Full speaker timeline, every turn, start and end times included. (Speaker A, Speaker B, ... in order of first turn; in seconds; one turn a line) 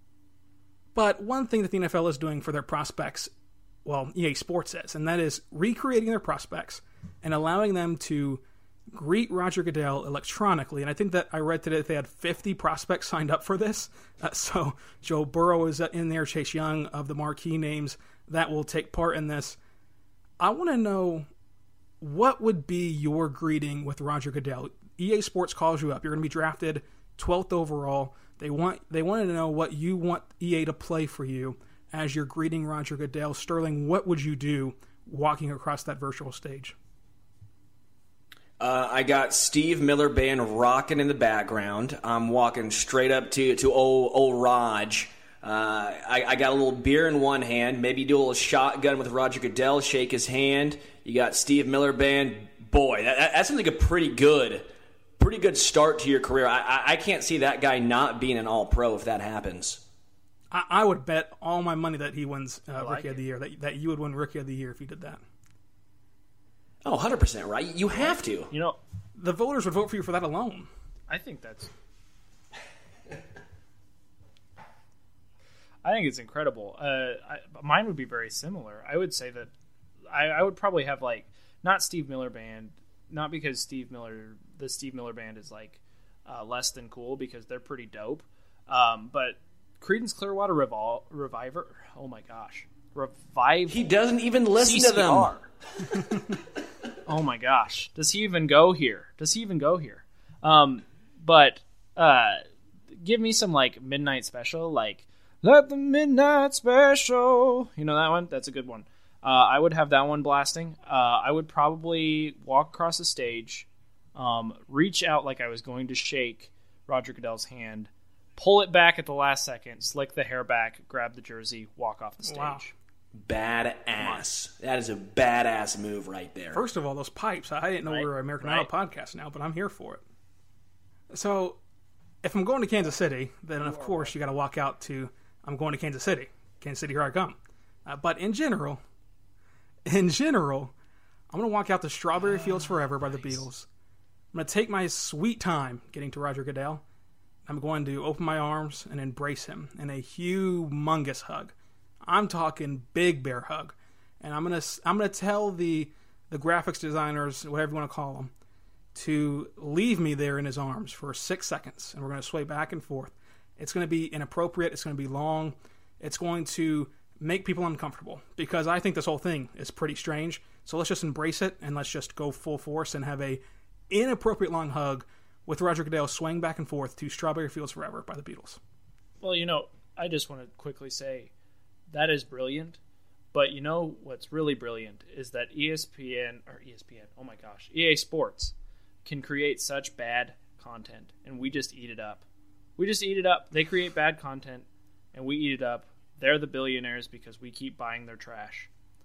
Speaker A: 0.9-3.3
Speaker A: 3.8-19.6
Speaker A: 20.4-21.3
Speaker A: 22.0-36.7
Speaker B: 38.6-54.7
Speaker B: 55.2-59.8
Speaker A: 60.5-65.2
Speaker C: 62.7-63.2
Speaker B: 66.8-68.5
Speaker C: 67.9-68.8
Speaker A: 69.2-70.7
Speaker C: 71.1-71.7
Speaker C: 75.8-79.5
Speaker C: 80.1-93.8
Speaker B: 93.7-95.3
Speaker C: 94.5-95.5
Speaker C: 97.0-122.7
Speaker A: 122.2-122.6
Speaker B: 123.1-126.6
Speaker C: 124.0-124.2
Speaker A: 126.5-130.0
Speaker C: 127.8-128.7
Speaker A: 131.1-131.6
Speaker A: 132.2-138.8
Speaker C: 133.6-134.1
Speaker A: 139.8-140.7
Speaker A: 141.3-143.7
Speaker C: 142.3-143.4
Speaker A: 144.3-146.8
Speaker A: 147.5-151.5
Speaker A: 152.0-158.3
Speaker A: 158.9-178.6
Speaker C: 179.2-181.3
Speaker C: 181.9-182.8
Speaker C: 183.3-188.5
Speaker C: 189.0-192.2
Speaker C: 192.8-198.7